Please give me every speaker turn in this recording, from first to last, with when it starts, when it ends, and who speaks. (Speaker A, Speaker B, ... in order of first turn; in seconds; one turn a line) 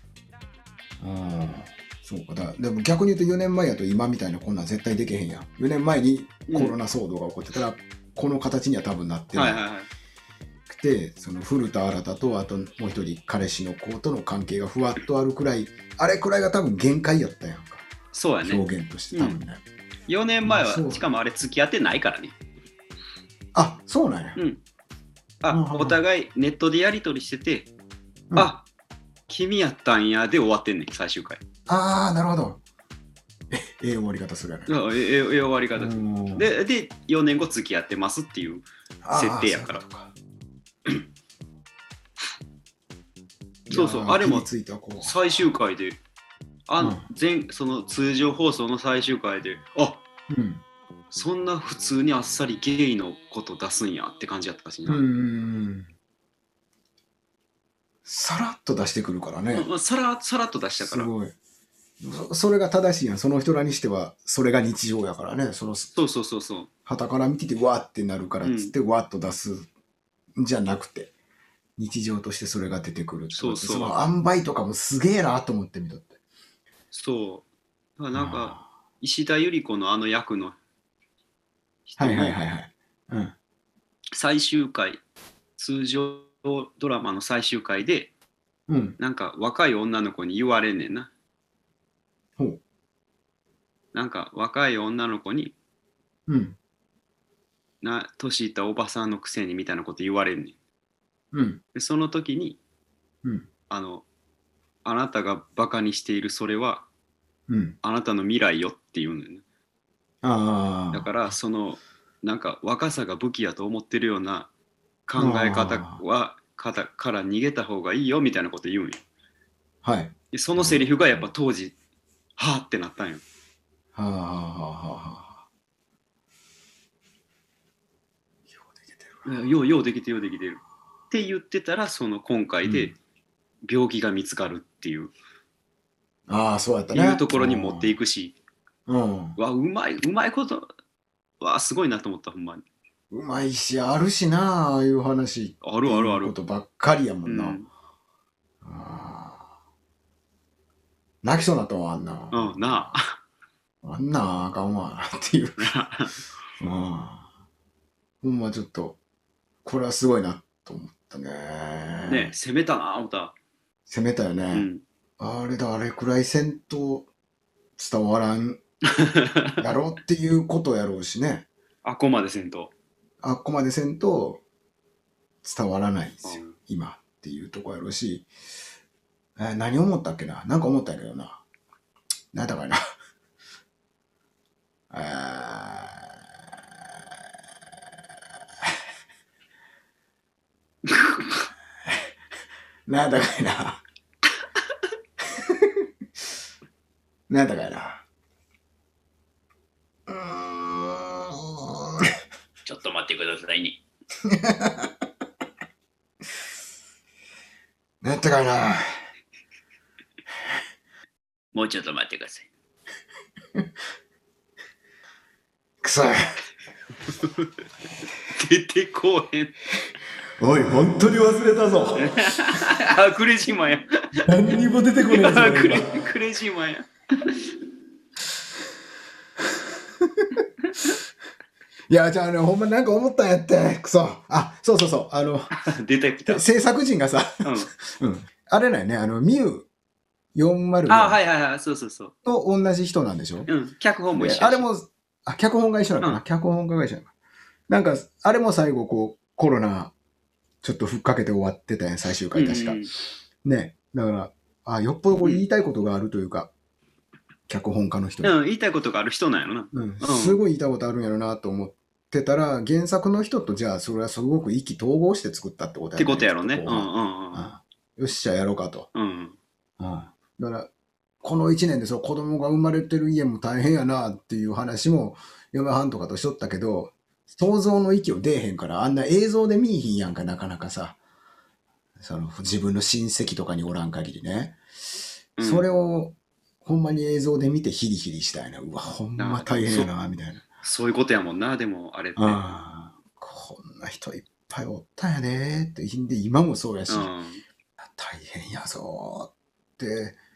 Speaker A: 1.0-9.6
Speaker B: 6.5-6.8
Speaker B: 9.3-9.9
Speaker A: 10.7-17.9
Speaker B: 18.1-19.4
Speaker A: 18.4-19.6
Speaker B: 20.1-22.3
Speaker A: 20.4-21.1
Speaker A: 23.5-24.4
Speaker B: 25.4-27.7
Speaker A: 25.5-26.0
Speaker B: 28.3-28.6
Speaker B: 29.3-31.4
Speaker A: 31.7-32.6
Speaker A: 33.5-34.8
Speaker B: 34.7-39.8
Speaker A: 35.7-36.5
Speaker A: 39.0-40.1
Speaker A: 43.7-45.2
Speaker B: 43.7-44.5
Speaker B: 45.0-46.0
Speaker B: 46.7-50.0
Speaker A: 50.3-50.6
Speaker B: 51.1-55.0
Speaker A: 54.9-55.9
Speaker A: 58.0-59.7
Speaker B: 59.5-61.1
Speaker A: 60.8-61.3
Speaker A: 62.0-65.9
Speaker B: 65.9-66.7
Speaker A: 66.8-69.7
Speaker B: 68.4-68.7
Speaker A: 70.3-71.1
Speaker A: 71.8-76.2
Speaker B: 73.3-74.1
Speaker B: 76.9-77.5
Speaker B: 78.0-80.6
Speaker A: 78.1-78.7
Speaker B: 81.8-82.4
Speaker A: 82.0-83.3
Speaker B: 84.2-85.0
Speaker B: 85.6-88.1
Speaker A: 88.7-89.0
Speaker B: 89.0-91.1
Speaker B: 93.9-95.5
Speaker A: 96.3-96.6
Speaker B: 97.8-100.5
Speaker A: 101.3-101.6
Speaker B: 101.7-102.6
Speaker B: 103.7-104.0
Speaker B: 104.8-106.8
Speaker A: 107.5-107.8
Speaker B: 107.8-109.4
Speaker A: 110.2-111.3
Speaker B: 110.9-114.5
Speaker B: 115.1-119.0
Speaker A: 115.2-116.0
Speaker A: 119.8-121.0
Speaker B: 120.3-121.7
Speaker B: 122.4-123.2
Speaker A: 123.9-125.4
Speaker A: 128.5-129.3
Speaker B: 129.2-132.9
Speaker A: 132.6-132.9
Speaker B: 133.6-135.1
Speaker A: 136.3-138.0
Speaker B: 136.9-138.3
Speaker A: 138.9-139.4
Speaker B: 139.4-140.7
Speaker B: 141.4-142.6
Speaker A: 143.1-147.6
Speaker B: 145.6-146.3
Speaker B: 147.2-147.7
Speaker A: 148.6-149.5
Speaker A: 151.2-153.0
Speaker B: 152.3-153.2
Speaker A: 153.8-155.7
Speaker B: 155.6-156.1
Speaker A: 156.6-157.3
Speaker A: 158.2-159.0
Speaker A: 159.6-162.3
Speaker B: 162.0-163.3
Speaker A: 163.9-164.7
Speaker B: 164.5-164.8
Speaker A: 165.2-167.1
Speaker A: 167.8-168.6
Speaker B: 169.0-169.6
Speaker A: 169.6-171.5
Speaker B: 171.8-172.7
Speaker A: 173.2-174.4
Speaker A: 175.4-178.3
Speaker B: 176.2-176.5
Speaker A: 179.4-181.4
Speaker A: 182.3-182.8
Speaker A: 184.9-186.2
Speaker B: 190.8-191.5
Speaker A: 192.9-193.8
Speaker A: 195.3-195.9
Speaker A: 197.3-198.0
Speaker A: 200.1-202.1
Speaker B: 202.6-203.8
Speaker A: 204.2-204.9
Speaker A: 208.0-208.8
Speaker B: 211.5-212.5
Speaker A: 215.8-216.2
Speaker B: 217.1-217.5
Speaker B: 218.3-219.5
Speaker A: 220.4-222.1
Speaker B: 222.0-224.2
Speaker A: 224.3-226.0
Speaker B: 225.1-227.4
Speaker A: 230.0-230.3
Speaker A: 231.9-235.5
Speaker B: 235.5-236.4
Speaker A: 236.3-239.7
Speaker B: 237.4-237.7
Speaker A: 240.3-241.2
Speaker B: 240.9-242.1
Speaker A: 242.2-243.5
Speaker B: 243.5-244.7
Speaker A: 244.1-247.1
Speaker A: 247.7-249.9
Speaker A: 250.6-252.8
Speaker B: 252.3-252.9
Speaker A: 253.4-256.5
Speaker A: 257.5-258.3
Speaker B: 258.2-260.4
Speaker A: 259.7-268.9
Speaker B: 266.0-267.5
Speaker B: 268.9-269.4
Speaker A: 269.8-270.7
Speaker A: 271.2-281.0
Speaker A: 282.0-284.6
Speaker B: 285.4-285.6
Speaker A: 285.4-290.4
Speaker B: 289.1-289.9
Speaker B: 290.6-292.4
Speaker A: 292.2-297.1
Speaker B: 296.9-297.4
Speaker A: 297.8-300.2